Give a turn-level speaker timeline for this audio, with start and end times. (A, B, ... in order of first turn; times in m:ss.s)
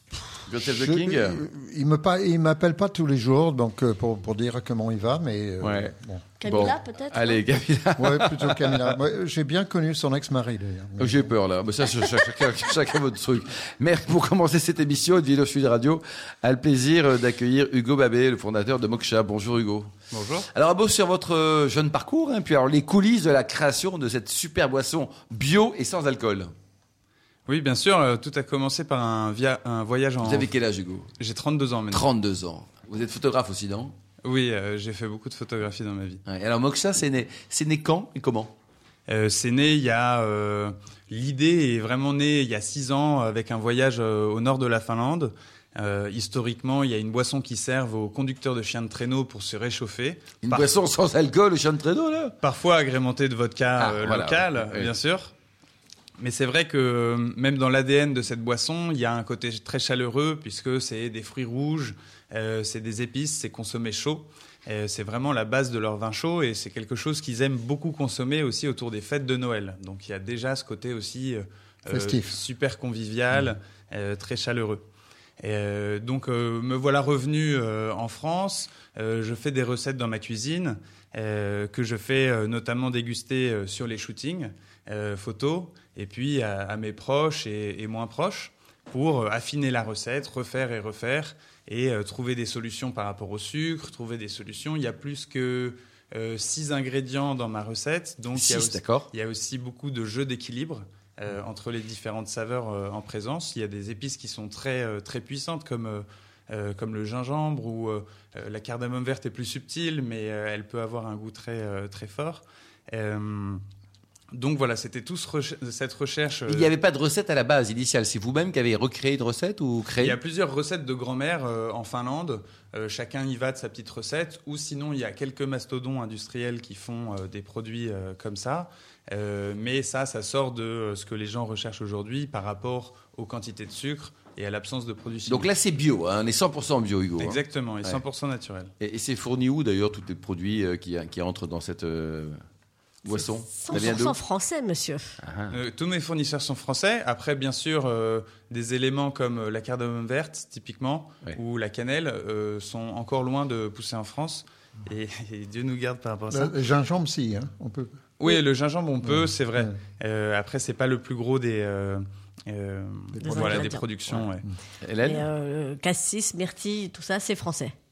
0:00.5-0:01.4 A
0:00.6-0:06.2 B
0:05.6-0:05.9 A
0:06.4-0:07.4 C
0:06.4-0:08.9 A
0:08.0-0:11.3 B
0:11.0-0:19.9 A
0:20.1-0:20.5 D
0:20.5-0:26.5 A
0:27.5-0:30.5 D
0:30.2-0:31.1 A
0:31.2-0:32.1 D
0:31.9-0:33.9 A
0:34.2-0:36.2 D
0:36.3-0:38.5 A
0:39.1-0:50.7 D
0:50.4-0:52.3 A
0:52.4-0:55.3 D
0:53.8-0:54.9 A
0:56.2-1:14.8 D
1:11.9-1:12.4 B
1:15.4-1:53.6 D
1:38.3-1:39.1 A
1:54.4-1:56.7 D
1:56.5-2:00.2 A
2:00.0-2:15.5 D
2:15.3-2:18.0 A
2:17.2-2:18.7 D
2:18.8-2:22.4 A
2:23.0-2:24.2 A
2:23.2-2:25.2 C
2:25.2-2:25.5 A
2:25.5-2:36.5 D
2:36.3-2:37.9 B
2:38.2-2:44.4 D
2:39.1-2:39.7 B
2:43.2-2:43.7 B
2:43.2-2:43.9 C
2:44.8-2:45.3 A
2:45.0-2:47.7 C